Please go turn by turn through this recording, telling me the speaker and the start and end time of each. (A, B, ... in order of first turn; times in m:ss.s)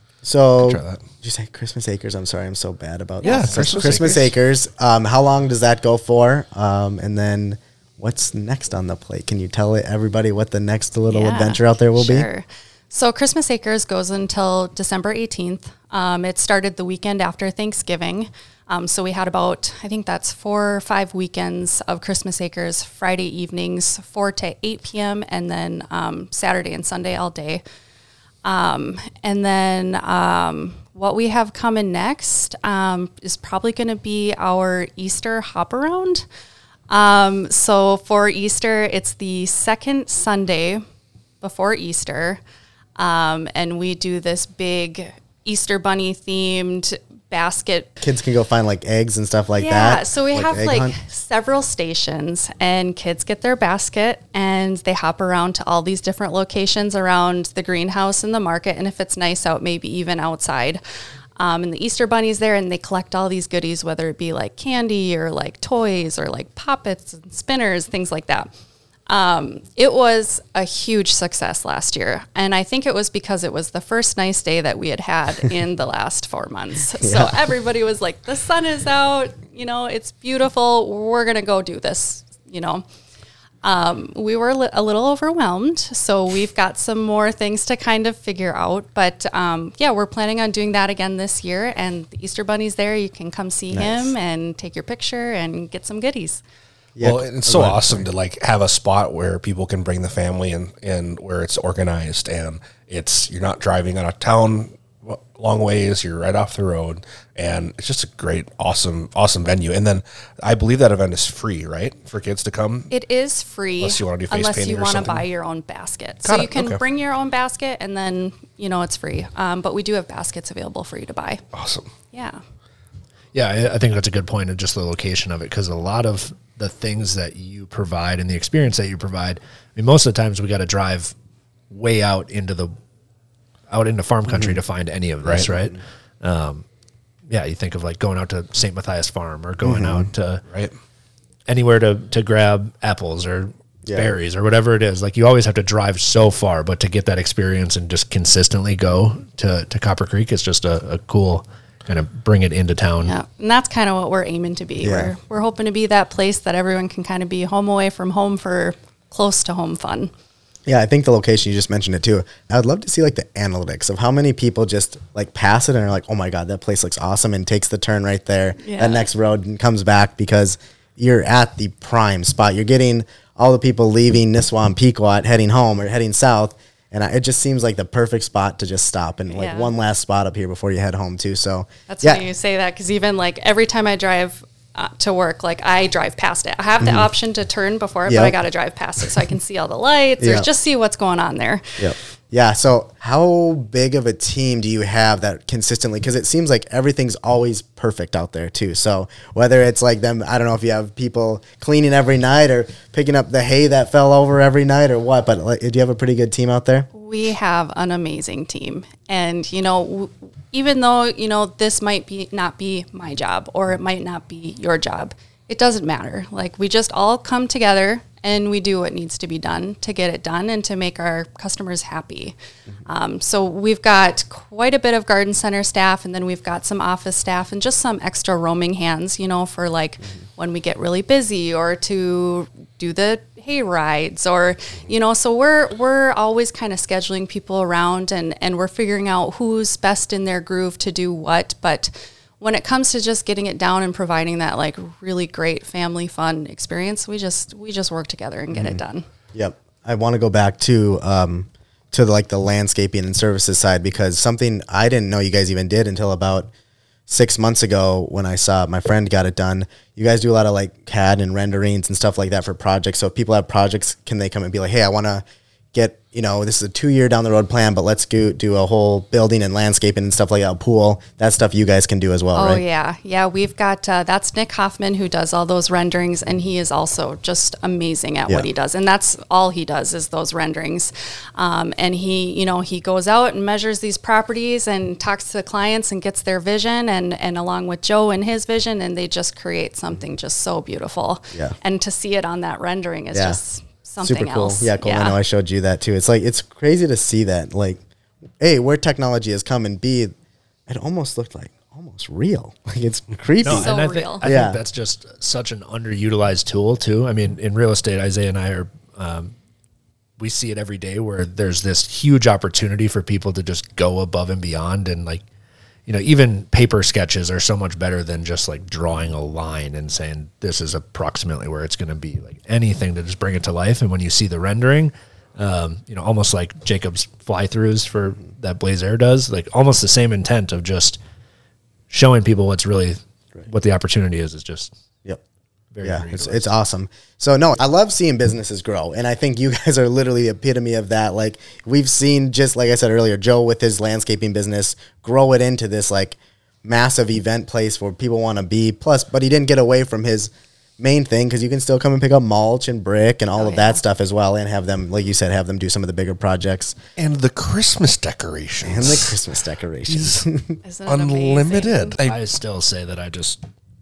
0:00.2-0:12.3 A
0:00.6-0:01.0 B
0:03.2-0:04.3 B
0:03.2-0:03.6 C
0:11.1-0:27.6 C
0:28.4-0:36.2 C
0:36.9-0:40.8 C
0:41.4-0:42.4 C
0:43.0-0:47.9 C
0:48.0-0:51.0 A
0:49.6-1:00.8 C
1:01.4-1:08.5 C
1:09.1-1:22.8 C
1:17.0-1:17.5 A
1:23.6-1:36.4 C
1:33.7-1:34.2 A
1:37.0-1:38.1 A
1:37.0-1:52.9 B
1:52.9-2:01.4 C
1:53.8-1:55.2 B
1:56.2-1:56.8 B
2:01.5-2:01.9 B
2:02.1-2:02.4 C
2:03.3-2:11.1 D
2:11.7-2:12.7 D
2:13.7-2:16.6 D
2:14.3-2:14.6 A
2:15.2-2:15.5 B
2:17.3-2:20.4 D
2:19.6-2:20.1 A
2:21.5-2:33.2 D
2:23.8-2:24.2 A
2:33.0-2:40.1 C
2:34.8-2:35.1 A
2:40.7-3:02.2 A
2:48.6-2:49.1 C
2:59.3-2:59.7 C
3:01.9-3:11.7 C
3:06.8-3:07.1 A
3:08.1-3:08.4 A
3:10.2-3:10.5 A
3:11.8-3:26.9 A
3:26.9-3:42.4 C
3:42.9-4:09.0 C
4:08.5-4:08.8 A
4:09.3-4:16.5 A
4:17.1-4:32.6 A
4:32.3-4:55.2 C
4:53.1-4:53.4 A
4:54.0-4:57.8 A
4:58.4-5:00.1 A
5:00.7-5:04.6 A
5:03.4-5:09.3 D
5:03.5-5:04.2 C
5:10.2-5:15.2 D
5:15.9-5:31.0 D
5:31.9-5:34.7 D
5:35.7-5:36.5 D
5:35.8-5:56.8 A
5:53.4-5:53.8 C
5:57.0-5:59.2 B
5:58.6-6:00.6 A
5:59.9-6:00.3 B
6:00.6-6:02.0 C
6:00.9-6:02.2 B
6:02.0-6:03.4 D